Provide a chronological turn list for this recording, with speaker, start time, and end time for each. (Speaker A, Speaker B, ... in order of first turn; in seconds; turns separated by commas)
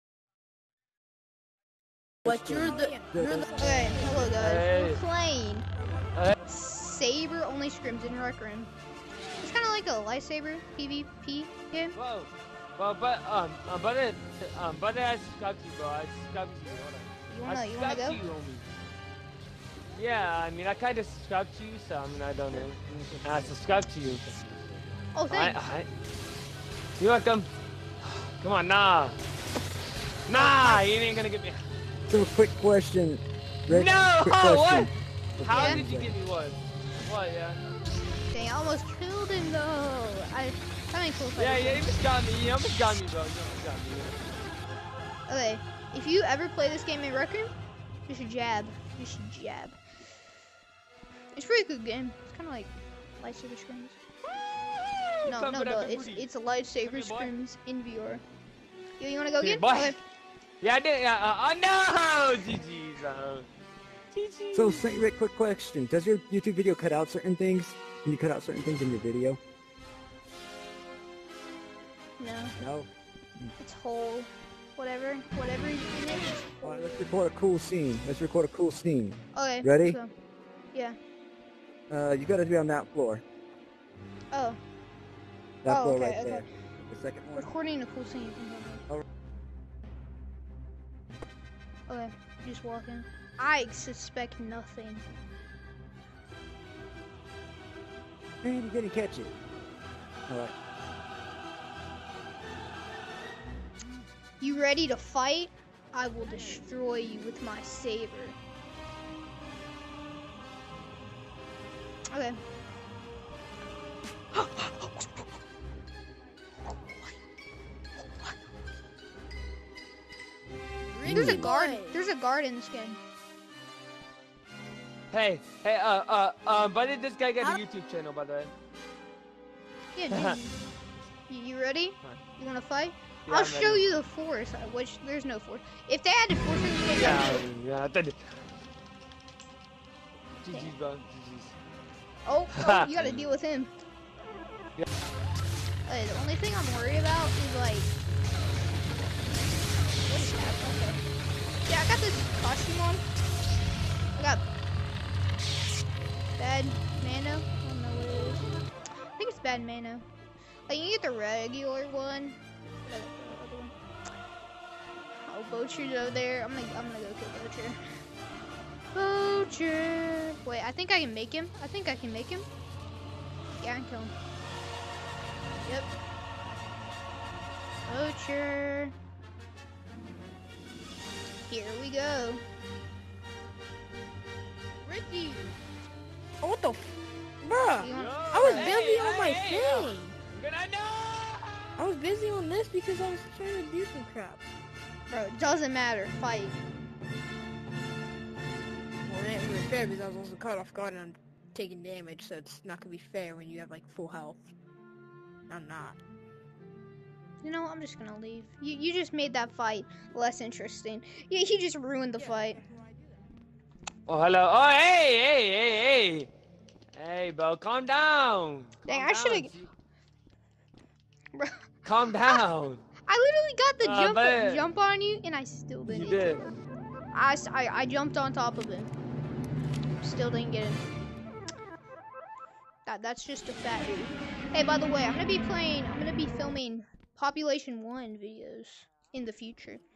Speaker A: 2.2-3.5, Speaker B: 2.2-4.3, Speaker C: 3.6-5.7, Speaker A: 4.0-4.3, Speaker D: 4.4-5.0, Speaker C: 6.5-8.7, Speaker C: 9.4-11.9, Speaker D: 11.9-18.7, Speaker C: 17.3-18.2, Speaker D: 19.9-24.2, Speaker C: 25.1-25.6, Speaker D: 25.3-25.9, Speaker D: 27.0-27.5, Speaker D: 28.0-29.1, Speaker D: 30.3-31.6, Speaker C: 30.3-30.9, Speaker A: 32.1-36.1, Speaker D: 33.7-37.6, Speaker C: 35.5-35.8, Speaker C: 38.3-41.9, Speaker D: 41.4-44.2, Speaker C: 45.3-47.5, Speaker C: 48.1-49.8, Speaker C: 51.3-54.0, Speaker D: 54.8-56.3, Speaker C: 55.2-58.2, Speaker D: 56.8-57.3, Speaker C: 59.0-60.0, Speaker D: 59.4-60.0, Speaker D: 60.6-63.5, Speaker D: 64.1-64.8, Speaker A: 64.5-69.4, Speaker C: 72.2-72.5, Speaker A: 72.6-73.5, Speaker C: 73.6-77.0, Speaker A: 76.6-80.0, Speaker C: 79.3-80.1, Speaker A: 81.9-83.2, Speaker C: 84.3-84.6, Speaker A: 85.6-87.5, Speaker C: 85.7-86.5, Speaker C: 87.3-88.8, Speaker C: 91.9-95.0, Speaker A: 98.4-99.3, Speaker A: 100.3-100.5, Speaker C: 104.4-108.3, Speaker C: 112.1-112.4, Speaker C: 120.9-123.0, Speaker B: 121.0-122.0, Speaker A: 121.0-121.5, Speaker D: 125.1-128.5, Speaker C: 129.9-130.5, Speaker D: 130.1-130.4, Speaker C: 131.3-137.4, Speaker D: 133.3-133.9, Speaker D: 136.9-138.3, Speaker D: 140.4-141.5, Speaker C: 142.2-143.7, Speaker D: 142.5-143.3, Speaker C: 145.9-147.9, Speaker C: 150.1-151.0, Speaker C: 151.7-153.0, Speaker C: 154.2-154.4, Speaker C: 156.4-158.4, Speaker C: 159.2-160.1, Speaker C: 160.7-163.7, Speaker C: 165.2-167.8, Speaker C: 168.9-172.4, Speaker C: 173.6-174.1, Speaker C: 177.9-178.9, Speaker C: 181.5-182.4, Speaker B: 184.8-185.6, Speaker B: 186.4-186.8, Speaker B: 187.4-190.2, Speaker C: 187.8-188.9, Speaker D: 187.9-191.8, Speaker B: 191.8-194.4, Speaker C: 195.1-196.6, Speaker B: 199.0-204.4, Speaker B: 205.5-206.0, Speaker C: 207.4-212.6, Speaker B: 212.1-213.2, Speaker D: 214.1-216.3, Speaker D: 216.9-219.7, Speaker C: 218.9-219.5, Speaker D: 221.8-222.8, Speaker C: 222.1-222.5, Speaker C: 223.1-226.6, Speaker D: 223.8-224.6, Speaker D: 225.8-226.5, Speaker C: 227.1-228.9, Speaker C: 230.0-230.8, Speaker C: 232.8-239.8